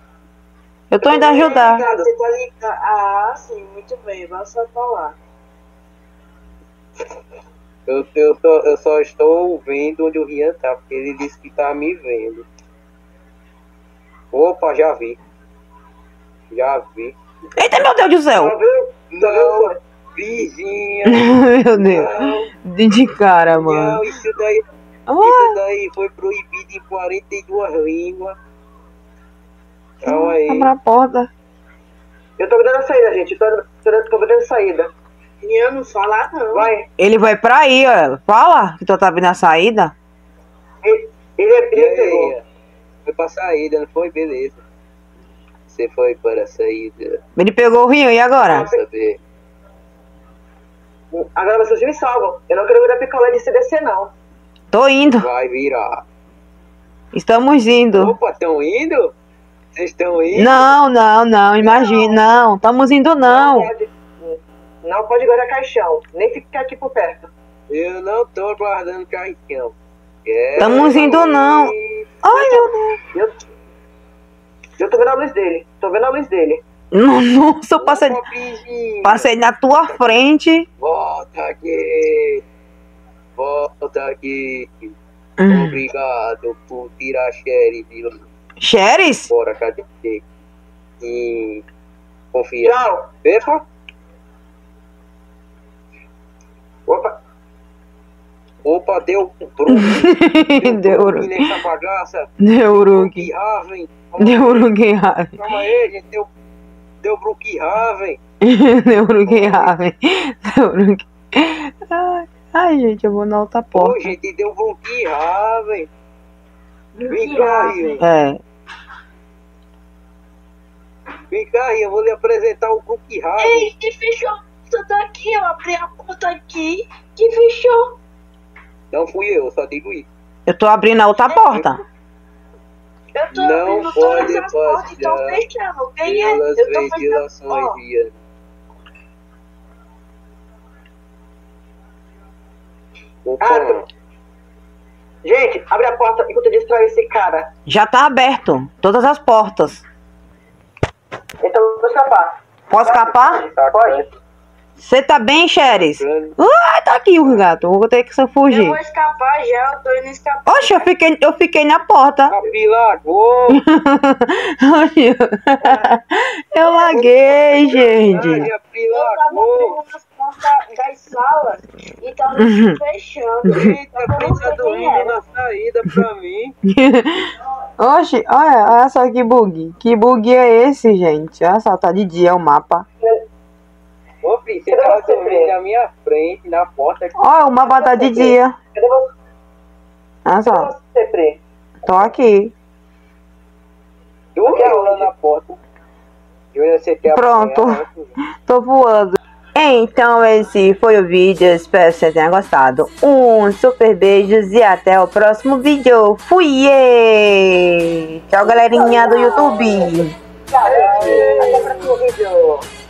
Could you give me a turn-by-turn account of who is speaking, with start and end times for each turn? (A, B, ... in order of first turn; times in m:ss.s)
0:00.9-0:01.8 A
0:01.0-0:02.1 B
0:01.1-0:05.2 C
0:07.9-0:12.5 D
0:14.3-0:15.2 D
0:16.5-0:17.1 D
0:17.6-0:18.5 A
0:18.3-0:19.8 B
0:19.1-0:22.5 D
0:21.1-0:24.0 A
0:23.5-0:24.6 D
0:25.1-0:25.6 A
0:25.2-0:28.4 D
0:30.0-0:30.7 D
0:30.0-0:31.3 A
0:32.4-0:34.9 B
0:35.4-0:36.7 C
0:36.5-0:36.9 B
0:37.0-0:39.9 A
0:40.8-0:42.3 B
0:41.7-0:42.4 D
0:43.0-0:44.6 D
0:45.7-0:47.2 D
0:47.4-0:48.7 A
0:48.4-0:49.2 D
0:48.5-0:48.8 B
0:51.1-0:54.1 B
0:54.7-0:55.3 A
0:55.2-0:56.0 D
0:57.1-0:58.2 A
0:57.9-0:59.1 D
0:59.7-1:00.7 D
1:00.3-1:03.7 A
1:01.6-1:02.1 B
1:03.2-1:07.3 B
1:07.7-1:09.7 D
1:10.2-1:12.1 D
1:10.6-1:13.0 A
1:10.6-1:11.1 B
1:14.8-1:16.6 B
1:16.9-1:18.2 A
1:17.8-1:19.3 D
1:19.0-1:20.6 A
1:19.9-1:20.2 D
1:20.8-1:22.4 D
1:23.4-1:24.9 D
1:25.4-1:25.8 A
1:25.5-1:28.2 D
1:28.6-1:29.3 A
1:29.3-1:30.2 D
1:31.0-1:31.6 D
1:32.3-1:33.6 D
1:32.6-1:33.1 B
1:36.9-1:37.1 B
1:38.6-1:44.7 D
1:39.7-1:41.4 A
1:42.4-1:43.3 A
1:44.2-1:45.4 A
1:45.4-1:46.3 D
1:47.0-1:48.2 D
1:48.4-1:54.1 A
1:49.2-1:49.8 D
1:53.7-1:55.9 D
1:57.1-1:58.0 D
1:57.1-1:58.0 C
1:58.0-1:58.4 A
2:01.3-2:03.7 D
2:03.4-2:07.9 C
2:08.9-2:10.1 D
2:10.5-2:11.8 A
2:11.3-2:11.6 C
2:13.1-2:17.8 C
2:13.3-2:15.4 D
2:16.0-2:18.1 D
2:23.2-2:23.8 D
2:23.4-2:23.8 B
2:25.2-2:27.5 B
2:27.7-2:29.8 A
2:31.4-2:34.0 B
2:32.7-2:33.4 A
2:33.4-2:34.1 D
2:34.8-2:38.8 A
2:35.7-2:36.4 D
2:38.5-2:40.9 C
2:40.5-2:42.4 A
2:42.3-2:43.6 D
2:43.5-2:48.5 A
2:47.4-2:49.8 D
2:47.7-2:48.2 B
2:48.9-2:55.2 C
2:52.4-2:52.8 A
2:53.4-2:56.5 D
2:56.7-3:02.8 A
3:04.2-3:07.2 D
3:04.7-3:05.5 B
3:07.2-3:08.5 A
3:07.6-3:09.1 B
3:10.2-3:10.7 A
3:10.5-3:11.4 B
3:11.8-3:12.5 A
3:14.3-3:15.6 D
3:14.4-3:15.1 B
3:16.5-3:18.1 D
3:17.1-3:17.8 A
3:18.4-3:30.1 A
3:28.4-3:32.7 B
3:30.6-3:31.7 C
3:30.7-3:31.9 D